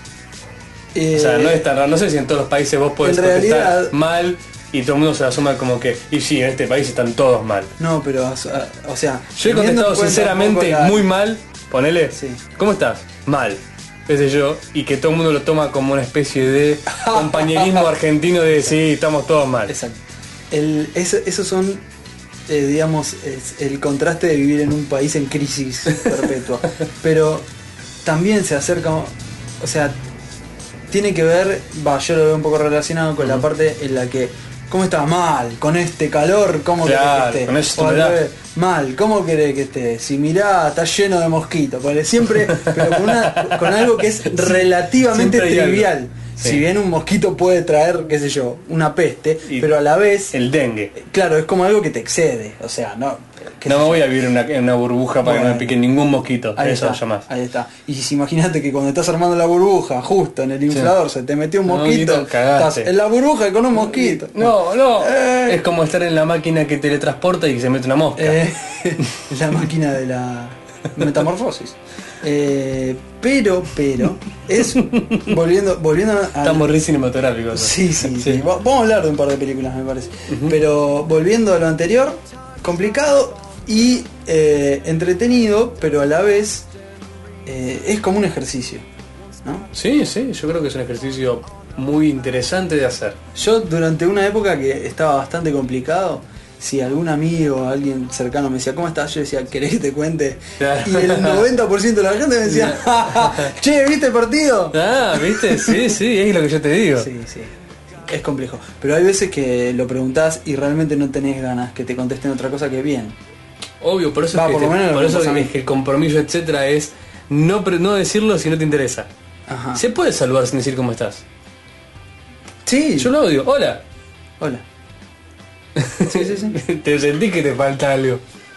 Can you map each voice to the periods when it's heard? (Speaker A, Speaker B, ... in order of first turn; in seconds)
Speaker A: 0.9-1.7, 3.0-4.0, 7.8-11.1, 12.1-12.4, 16.9-17.9, 19.7-21.8, 22.5-27.5, 28.0-30.0, 30.9-50.4, 51.0-54.0, 55.2-55.7, 56.6-65.6, 68.2-76.7, 77.5-86.7, 87.5-88.8, 93.3-105.9, 107.0-107.5, 108.1-113.2, 114.3-115.5, 119.5-119.8, 122.7-123.1, 126.0-126.6
Speaker B: 1.1-7.7, 9.4-19.7, 36.8-38.2, 42.5-46.6, 49.5-49.8, 50.3-50.9, 53.6-57.3, 60.7-60.9, 61.7-62.9, 63.8-68.4, 74.6-75.3, 76.4-78.5, 80.3-80.6, 89.7-93.2, 100.6-101.5, 102.5-103.5, 104.7-107.1, 113.8-119.1, 119.8-121.2, 123.0-123.8, 125.8-128.2